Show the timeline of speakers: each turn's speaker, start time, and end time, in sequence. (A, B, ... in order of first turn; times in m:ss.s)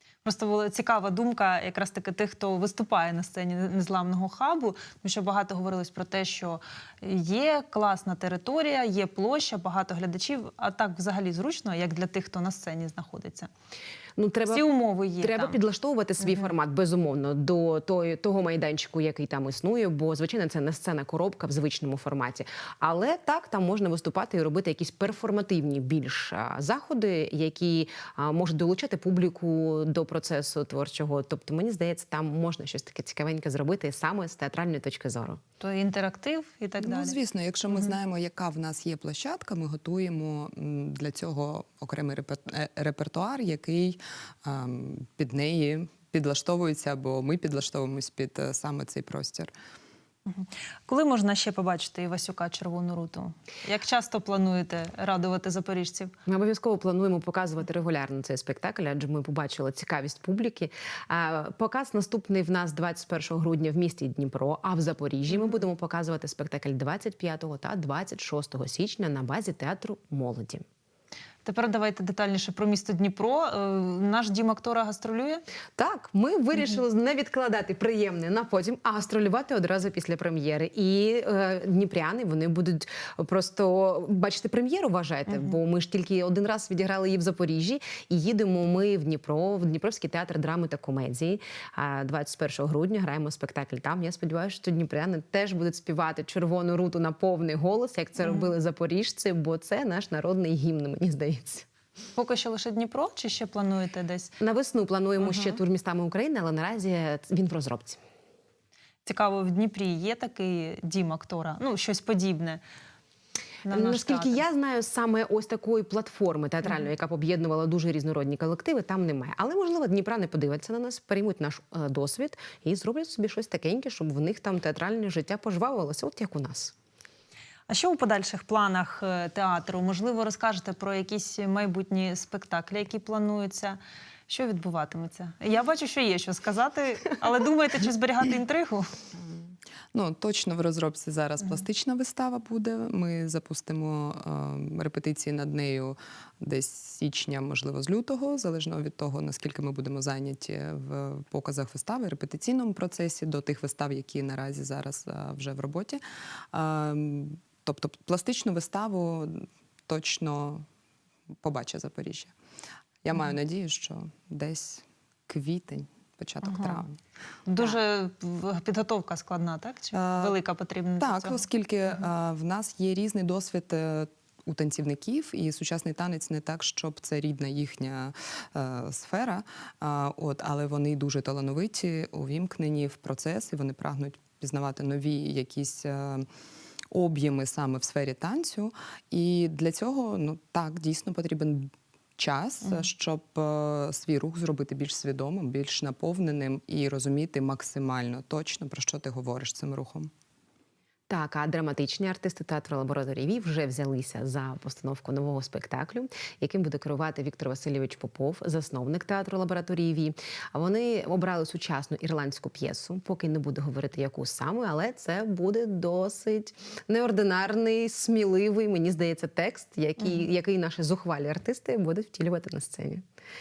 0:00.2-0:13.5 A
0:14.2-0:14.6 B
0:14.5-0:15.6 A
0:15.2-0:35.4 B
0:35.6-0:37.2 A
0:36.8-0:49.5 C
0:50.3-0:56.1 A
0:56.3-1:10.6 B
1:11.4-1:15.4 A
1:15.8-1:41.7 B
1:42.2-1:44.3 A
1:44.4-1:48.0 B
1:45.3-1:45.5 A
1:49.0-1:52.6 A
1:53.6-1:54.4 A
1:53.7-2:06.7 B
2:07.7-2:19.0 A
2:19.2-2:36.0 C
2:36.5-2:40.6 C
2:41.4-2:42.3 C
2:43.0-2:47.0 C
2:46.4-2:46.8 A
2:47.5-2:51.4 A
2:49.9-2:50.4 C
2:51.0-3:06.3 C
3:06.9-3:20.1 C
3:21.1-3:43.0 B